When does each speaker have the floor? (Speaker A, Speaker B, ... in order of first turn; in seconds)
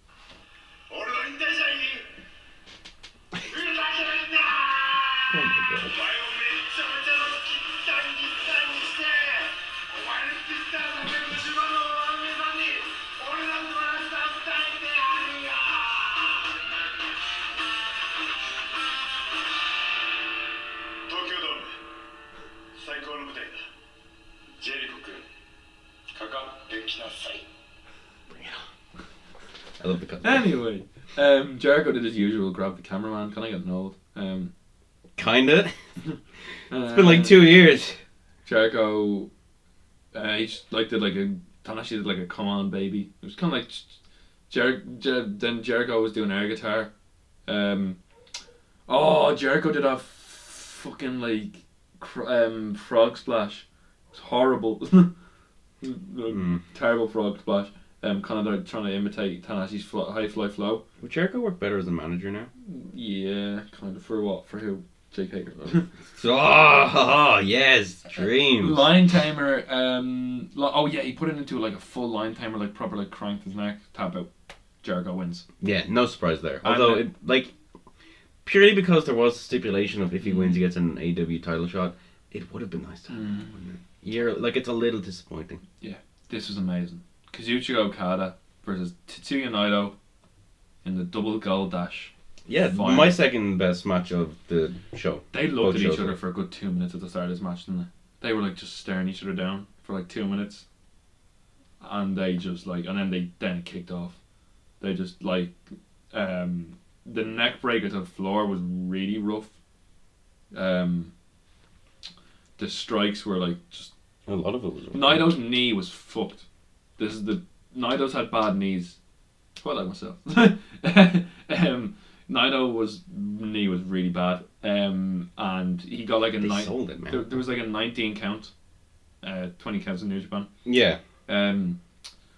Speaker A: 0.9-2.1, 3.5-16.5, 21.1-21.7, 22.8-23.6, 24.6-25.2, 26.1-27.4
Speaker B: 5.3-6.0, 28.3-28.6, 29.8-30.4, 35.2-35.8, 36.8-38.0, 56.3-56.6, 61.0-62.5, 66.1-68.9, 75.6-77.5, 78.4-85.6, 92.5-96.2, 114.3-115.3, 126.4-127.2, 130.6-131.0
Speaker C: 30.2-34.5, 36.7-37.5, 38.5-39.3, 40.1-44.0, 44.5-46.9, 47.5-48.0, 48.9-55.1, 55.8-60.8, 62.6-65.9, 68.6-74.3, 74.8-75.5, 76.6-77.1, 80.2-80.5, 83.1-83.6, 85.8-89.9, 90.8-92.1, 92.7-93.2, 95.3-100.6, 101.8-104.2, 104.8-105.6, 106.1-109.5, 110.5-111.1, 112.6-113.9, 114.9-116.4, 117.0-119.0, 119.6-128.5, 129.2-130.5, 131.3-131.8